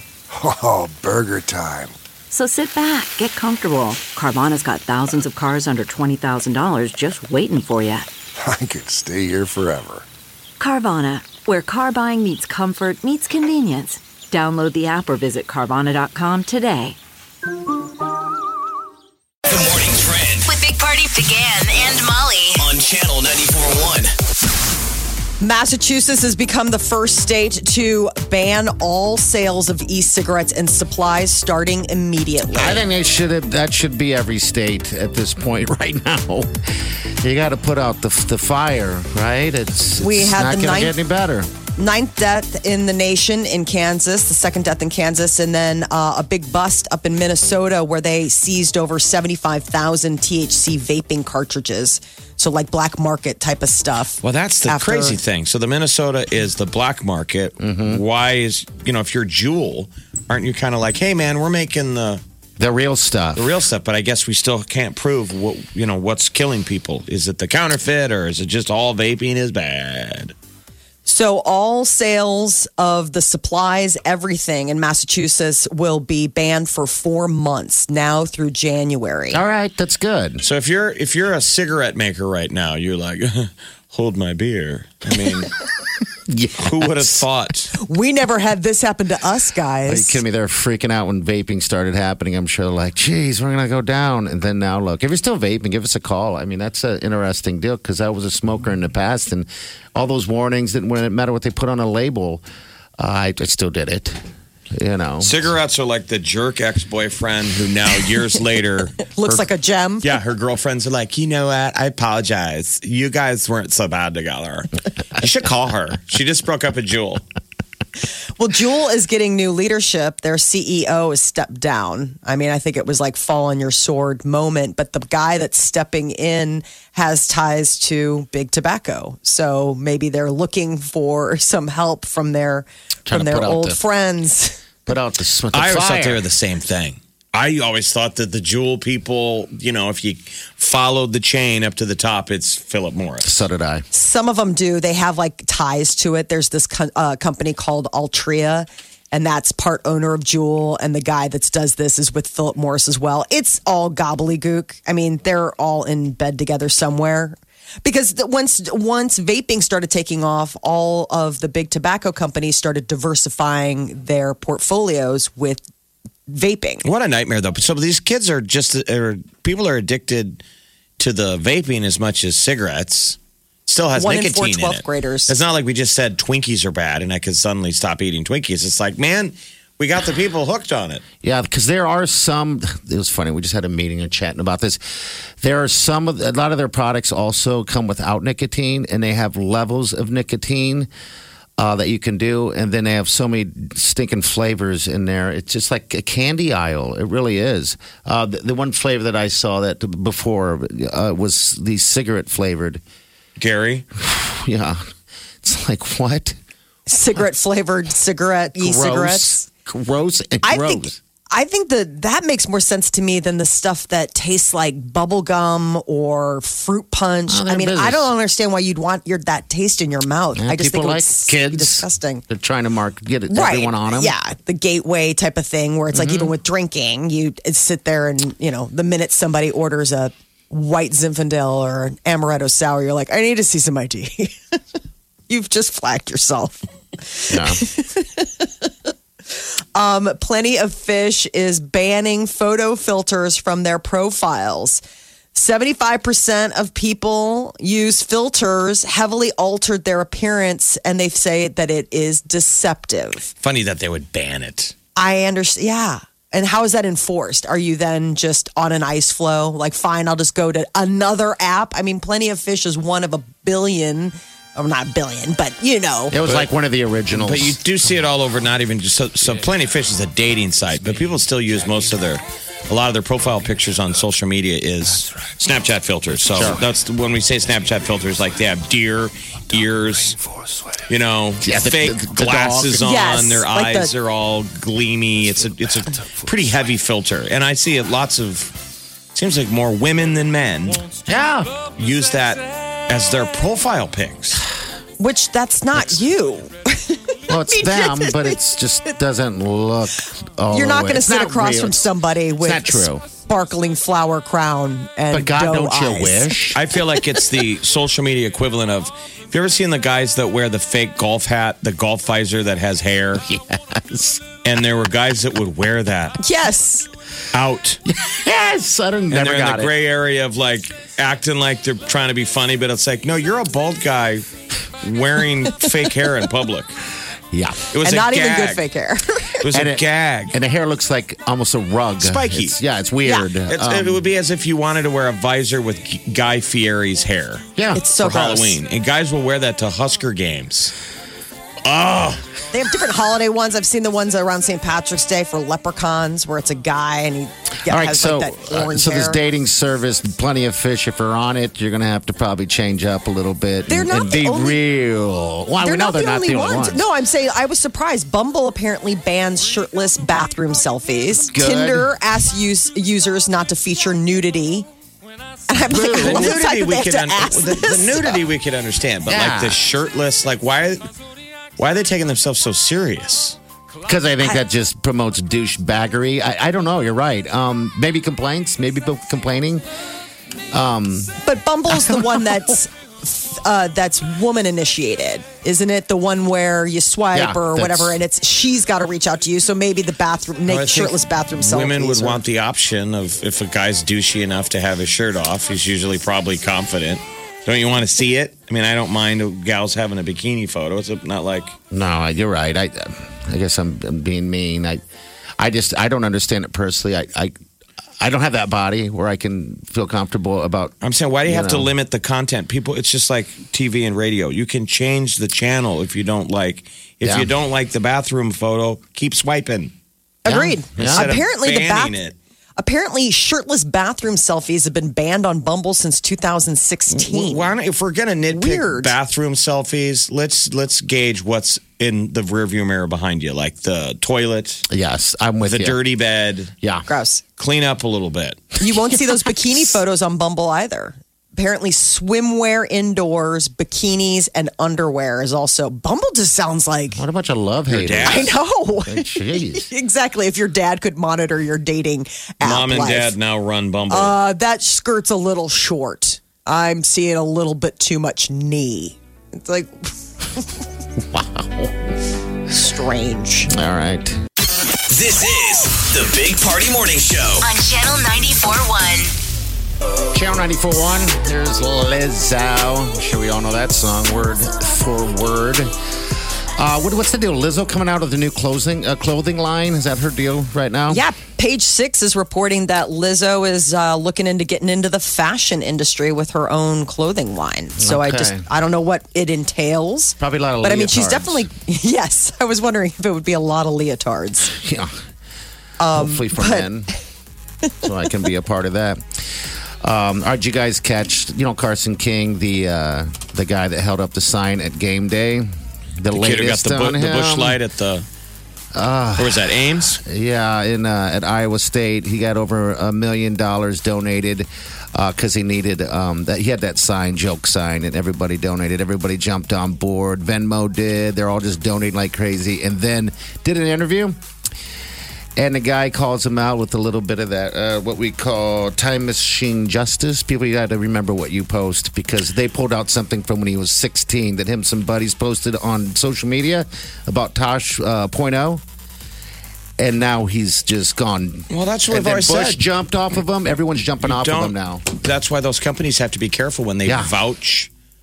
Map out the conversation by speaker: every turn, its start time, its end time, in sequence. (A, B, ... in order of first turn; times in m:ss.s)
0:00.3-0:02.0 A
0:02.3-0:08.1 B
0:08.4-0:10.1 A
0:10.6-0:17.0 B
0:19.5-0:20.5 C
0:20.4-0:22.7 D
0:22.6-0:24.1 C
0:25.4-0:32.8 E
0:32.5-0:36.5 F
0:37.2-0:41.5 F
0:40.0-0:41.0 E
0:41.8-0:55.2 E
0:54.2-1:02.2 G
0:57.6-0:58.0 F
1:02.6-1:03.5 F
1:03.4-1:10.3 G
1:11.0-1:19.4 E
1:19.3-1:20.4 F
1:20.4-1:25.6 G
1:26.3-1:27.2 F
1:26.6-1:27.7 G
1:27.8-1:30.2 E
1:29.9-1:42.4 F
1:43.0-1:44.2 F
1:44.7-1:45.4 F
1:45.2-1:49.5 G
1:49.1-1:50.1 E
1:50.0-1:57.2 G
1:58.4-2:14.6 E
2:13.1-2:13.8 F
2:14.9-2:16.2 F
2:15.5-2:23.3 G
2:23.2-2:23.8 F
2:23.9-2:45.7 E
2:46.3-2:46.9 E
2:46.8-2:50.4 G
2:51.0-3:01.0 G
2:54.0-2:55.4 E
3:01.2-3:04.8 F
3:05.4-3:10.9 F
3:11.6-3:22.8 F
3:23.4-3:23.8 G
3:24.0-3:24.8 F
3:25.4-3:26.4 F
3:26.9-3:29.4 E
3:28.6-3:31.0 F
3:30.4-3:42.2 E
3:37.3-3:38.1 F
3:40.4-3:44.2 F
3:43.3-3:54.6 E
3:45.9-3:46.4 F
3:55.3-3:58.7 E
3:57.3-3:57.6 F
3:59.3-4:04.8 E
4:05.3-4:13.3 E
4:13.4-4:14.7 G
4:15.0-4:26.2 E
4:26.1-4:27.6 F
4:26.2-4:26.5 G
4:27.2-4:40.2 G
4:36.3-4:36.6 F
4:40.9-4:48.6 G
4:41.4-4:42.9 F
4:42.8-4:43.9 E
4:49.1-4:50.8 G
4:51.1-4:51.6 F
4:51.7-4:54.5 G
4:55.0-4:58.9 E
4:57.3-5:03.0 F
5:00.5-5:06.5 E
5:05.1-5:06.6 F
5:06.5-5:13.2 G
5:13.2-5:14.2 F
5:14.4-5:16.2 G
5:16.2-5:16.9 E
5:17.3-5:17.8 G
5:17.9-5:19.7 F
5:19.1-5:24.3 G
5:24.8-5:26.8 G
5:27.3-5:27.7 F
5:27.7-5:28.6 G
5:27.8-5:29.4 E
5:29.4-5:30.3 G
5:29.5-5:34.0 F
5:32.0-5:32.6 G
5:33.5-5:37.5 G
5:37.6-5:37.9 F
5:37.7-5:38.6 E
5:38.0-5:40.7 G
5:41.7-5:42.2 G
5:42.5-5:49.2 E
5:47.7-5:56.9 F
5:53.7-5:54.6 E
5:55.6-6:04.7 E
6:01.3-6:01.9 F
6:05.5-6:08.2 E
6:05.6-6:06.3 F
6:06.0-6:10.9 G
6:09.1-6:09.6 F
6:11.6-6:13.4 G
6:13.9-6:19.6 F
6:20.5-6:21.2 F
6:21.2-6:32.2 E
6:27.1-6:28.0 F
6:30.5-6:41.5 G
6:41.7-6:44.8 F
6:45.4-6:47.3 F
6:48.0-6:50.7 F
6:50.8-6:59.7 G
6:51.3-6:51.7 F
6:57.0-6:57.3 F
7:00.2-7:02.0 E
7:00.3-7:01.2 F
7:00.8-7:02.2 G
7:02.6-7:07.5 E
7:06.9-7:14.6 G
7:08.3-7:08.9 E
7:14.7-7:15.8 F
7:15.4-7:16.5 G
7:16.9-7:17.2 E
7:17.4-7:18.6 G
7:18.6-7:27.0 E
7:27.0-7:29.7 F
7:27.7-7:28.3 G
7:28.0-7:33.2 E
7:32.4-7:34.2 G
7:33.9-7:39.9 E
7:41.1-7:41.7 F
7:42.5-7:43.5 E
7:43.5-7:44.2 F
7:44.9-7:47.4 C
7:47.4-7:49.1 D
7:50.1-7:55.7 F
7:56.6-8:01.0 F
8:00.9-8:14.6 E
8:07.8-8:08.4 F
8:10.2-8:11.5 F
8:14.5-8:14.9 F
8:15.8-8:16.7 E
8:15.9-8:16.9 F
8:17.8-8:19.0 F
8:19.8-8:25.5 F
8:26.0-8:27.6 F
8:26.1-8:28.1 G
8:28.7-8:44.2 F
8:29.2-8:30.0 G
8:45.4-8:58.6 F
8:59.8-9:04.8 F
9:01.5-9:02.6 G
9:04.0-9:07.7 G
9:06.8-9:07.1 F